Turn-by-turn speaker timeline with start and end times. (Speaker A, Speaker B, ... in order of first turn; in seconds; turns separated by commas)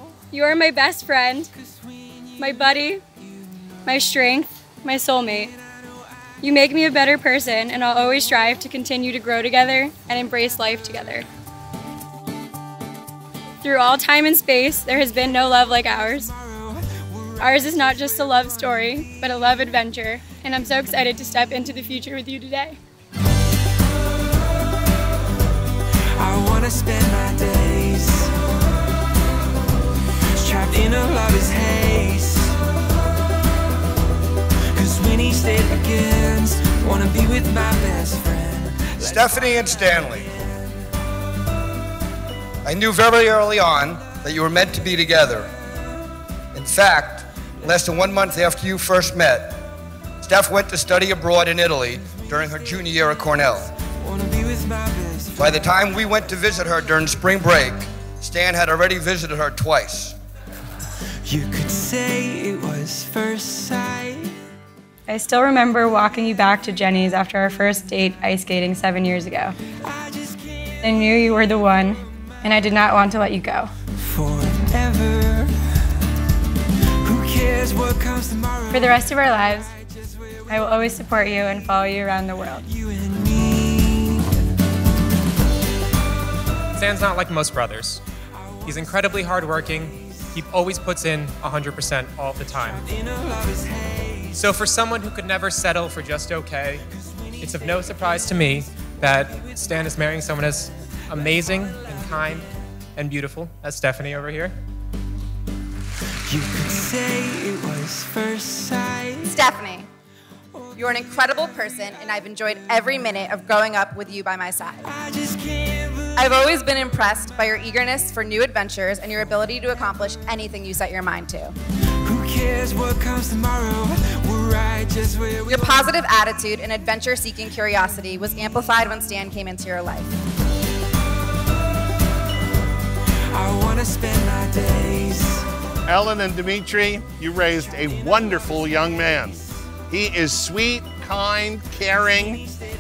Speaker A: 0.3-1.5, Speaker A: 2.4-3.0, Speaker A: 3.9-5.5, Speaker A: 6.4-11.3, Speaker A: 13.6-16.3, Speaker A: 17.4-22.8, Speaker B: 26.2-28.4, Speaker B: 30.4-32.6, Speaker B: 34.8-39.0, Speaker C: 39.0-40.3, Speaker C: 42.6-45.5, Speaker C: 46.5-49.7, Speaker C: 50.2-53.8, Speaker B: 54.1-55.3, Speaker C: 55.4-60.2, Speaker B: 61.3-64.3, Speaker A: 65.1-69.6, Speaker B: 70.0-70.6, Speaker A: 70.8-73.7, Speaker B: 74.1-75.6, Speaker B: 77.0-78.7, Speaker A: 78.7-79.7, Speaker A: 80.5-82.7, Speaker B: 82.8-84.3, Speaker D: 86.7-88.0, Speaker D: 88.7-92.9, Speaker B: 92.9-94.2, Speaker D: 94.3-96.8, Speaker D: 97.4-104.5, Speaker B: 106.3-109.3, Speaker E: 109.3-109.9, Speaker E: 110.8-114.9, Speaker B: 115.0-116.1, Speaker E: 116.2-121.5, Speaker B: 122.0-125.8, Speaker E: 125.5-130.1, Speaker B: 133.3-135.5, Speaker F: 135.9-139.4, Speaker F: 139.9-142.4